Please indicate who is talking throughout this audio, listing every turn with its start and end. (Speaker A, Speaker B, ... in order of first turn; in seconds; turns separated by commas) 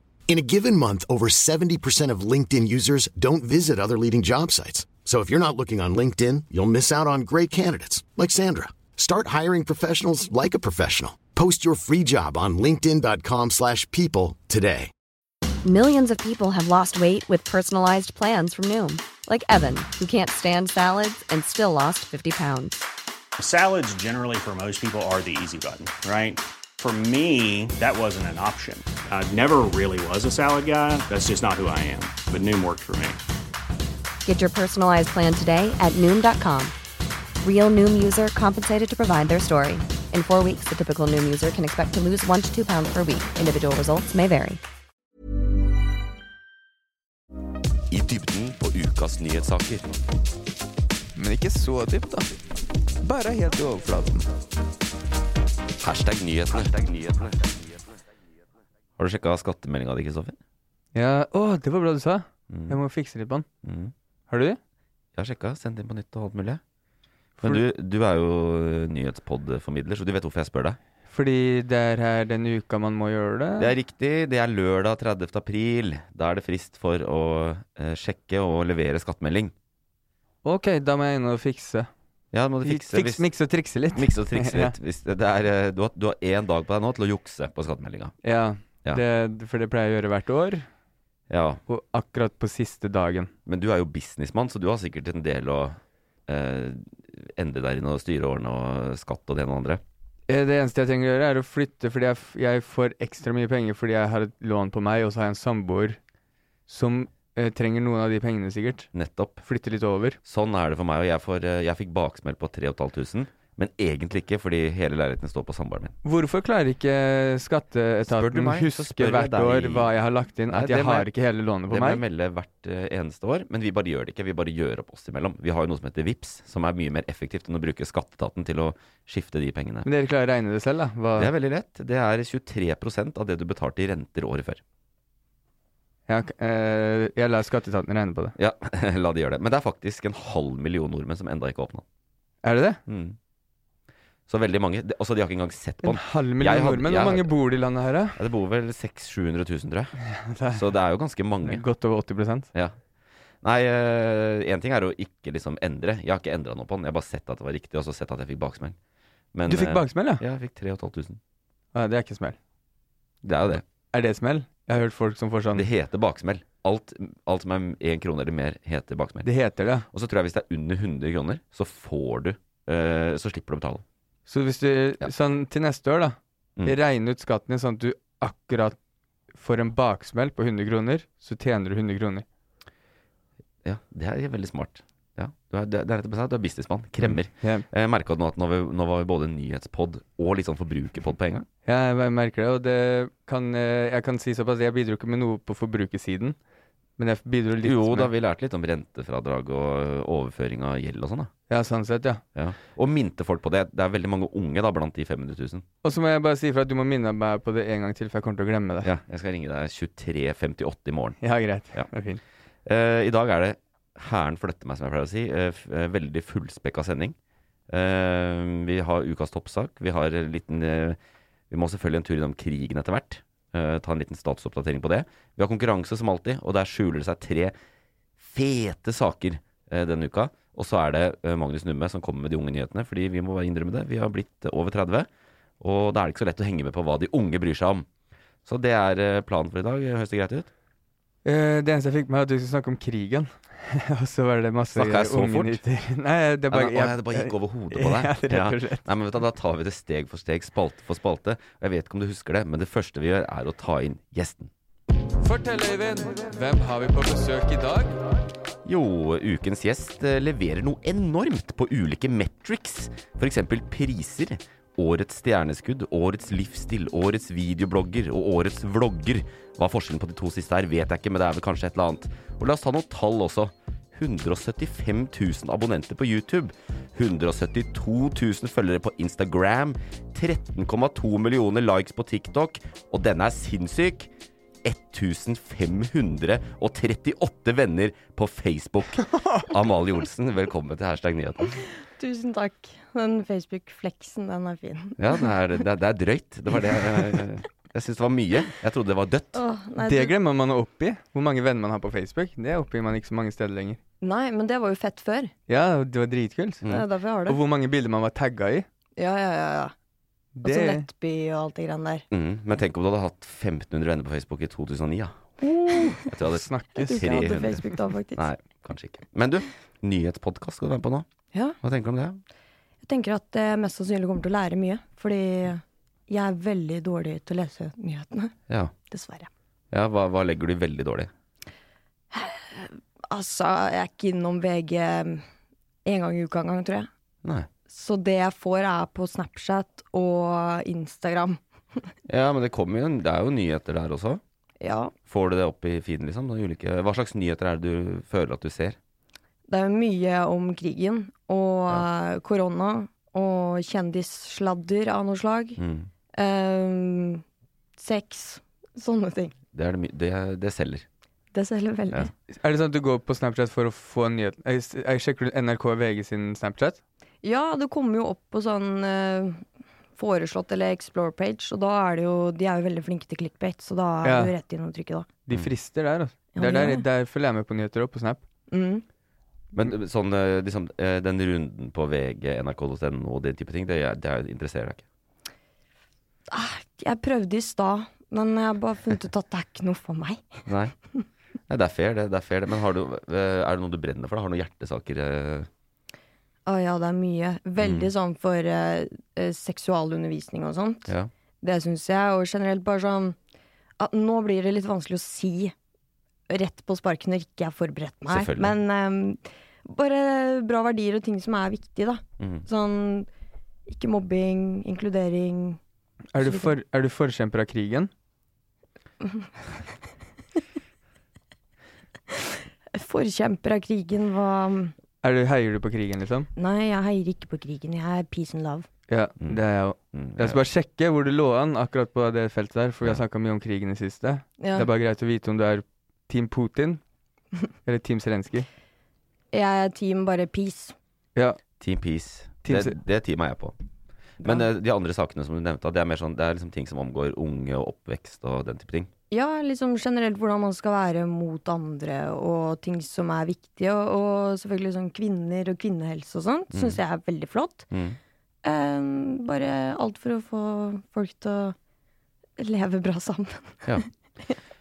Speaker A: 0.3-14.9, Speaker B: 15.6-22.8, Speaker C: 23.4-33.2, Speaker B: 34.2-36.7, Speaker B: 37.4-44.6, Speaker D: 47.9-50.0, Speaker E: 51.1-52.3, Speaker E: 53.0-54.2, Speaker D: 55.8-57.5, Speaker D: 59.0-60.4, Speaker E: 60.9-63.5, Speaker D: 62.5-62.8, Speaker D: 63.6-63.9, Speaker E: 64.3-64.6, Speaker D: 65.2-66.6, Speaker D: 67.4-70.8, Speaker E: 71.1-73.7, Speaker D: 73.6-79.5, Speaker E: 80.4-81.9, Speaker D: 82.3-83.2, Speaker E: 82.6-84.7, Speaker D: 83.9-88.1, Speaker E: 88.2-90.7, Speaker D: 91.3-91.6, Speaker E: 91.7-93.3, Speaker D: 93.5-99.8, Speaker E: 100.3-106.0, Speaker E: 106.7-108.9, Speaker D: 108.9-109.4, Speaker E: 109.4-110.2, Speaker D: 110.2-115.9, Speaker E: 116.0-122.0, Speaker D: 118.0-119.9, Speaker D: 120.5-121.1, Speaker D: 121.7-129.9, Speaker E: 129.8-131.3, Speaker D: 131.1-134.6, Speaker E: 136.1-138.3, Speaker D: 138.4-141.8, Speaker E: 142.4-142.8, Speaker D: 142.9-143.2, Speaker D: 144.3-147.3, Speaker E: 145.8-148.2, Speaker D: 148.2-149.9, Speaker E: 150.0-150.6, Speaker D: 150.5-151.7, Speaker E: 151.4-152.5, Speaker D: 153.4-158.8, Speaker D: 159.3-161.2, Speaker E: 159.5-160.2, Speaker E: 161.7-162.4, Speaker D: 163.2-163.6, Speaker E: 163.9-165.7, Speaker D: 165.5-169.3, Speaker E: 169.2-169.9, Speaker D: 169.9-173.8, Speaker E: 174.3-178.8, Speaker E: 179.3-182.2, Speaker D: 183.6-191.5, Speaker E: 187.0-187.7, Speaker E: 191.7-196.3, Speaker E: 197.0-198.1, Speaker D: 197.6-201.3, Speaker E: 201.5-202.2, Speaker D: 202.3-205.6, Speaker E: 205.8-208.9, Speaker D: 208.8-211.2, Speaker E: 211.2-212.2, Speaker D: 212.7-217.2, Speaker D: 217.7-221.0, Speaker D: 221.5-227.5, Speaker D: 228.2-235.1, Speaker D: 235.6-237.8, Speaker D: 238.4-240.5, Speaker E: 241.2-248.9, Speaker D: 244.7-245.6, Speaker D: 246.5-254.5, Speaker E: 255.2-258.0, Speaker D: 258.6-284.1, Speaker D: 284.6-291.6, Speaker F: 291.9-295.2, Speaker D: 295.0-299.3, Speaker F: 299.3-300.1, Speaker E: 299.8-303.8, Speaker F: 304.0-305.3, Speaker E: 305.5-306.6, Speaker F: 306.6-307.4, Speaker E: 307.3-308.6, Speaker F: 309.0-309.7, Speaker E: 310.3-310.9, Speaker F: 310.4-312.0, Speaker D: 312.1-315.2, Speaker E: 315.6-317.2, Speaker F: 315.7-316.0, Speaker D: 315.9-321.1, Speaker F: 316.8-318.2, Speaker D: 321.6-322.2, Speaker F: 322.8-328.3, Speaker F: 328.9-329.3, Speaker D: 329.7-331.1, Speaker F: 332.1-335.2, Speaker F: 335.8-336.9, Speaker D: 337.2-337.5, Speaker F: 337.7-341.8, Speaker D: 342.1-344.2, Speaker F: 344.6-344.9, Speaker D: 345.1-348.8, Speaker F: 349.5-355.6, Speaker D: 355.6-355.9, Speaker F: 356.1-357.2, Speaker F: 357.8-359.3, Speaker D: 359.5-360.9, Speaker F: 361.3-362.1, Speaker E: 362.3-366.8, Speaker F: 367.2-369.4, Speaker F: 369.9-375.1, Speaker E: 374.0-374.3, Speaker E: 375.2-378.2, Speaker F: 376.4-376.8, Speaker F: 378.5-378.8, Speaker D: 379.5-384.8, Speaker F: 386.3-390.4, Speaker D: 390.5-390.7, Speaker D: 391.5-395.5, Speaker F: 396.4-403.1, Speaker D: 397.6-397.9, Speaker F: 403.8-405.5, Speaker F: 406.3-413.1, Speaker D: 408.1-408.6, Speaker D: 412.2-412.4, Speaker F: 413.7-415.6, Speaker E: 416.1-417.9, Speaker F: 416.2-416.6, Speaker F: 422.7-424.7, Speaker E: 425.0-426.3, Speaker F: 426.4-428.7, Speaker E: 428.9-436.8, Speaker D: 429.9-430.4, Speaker F: 434.4-434.7, Speaker E: 437.6-438.5, Speaker F: 439.3-440.7, Speaker D: 441.6-443.5, Speaker E: 442.4-442.8, Speaker D: 444.2-448.9, Speaker F: 449.1-457.7, Speaker D: 456.5-456.8, Speaker D: 457.7-458.0, Speaker F: 458.4-461.6, Speaker F: 462.4-464.4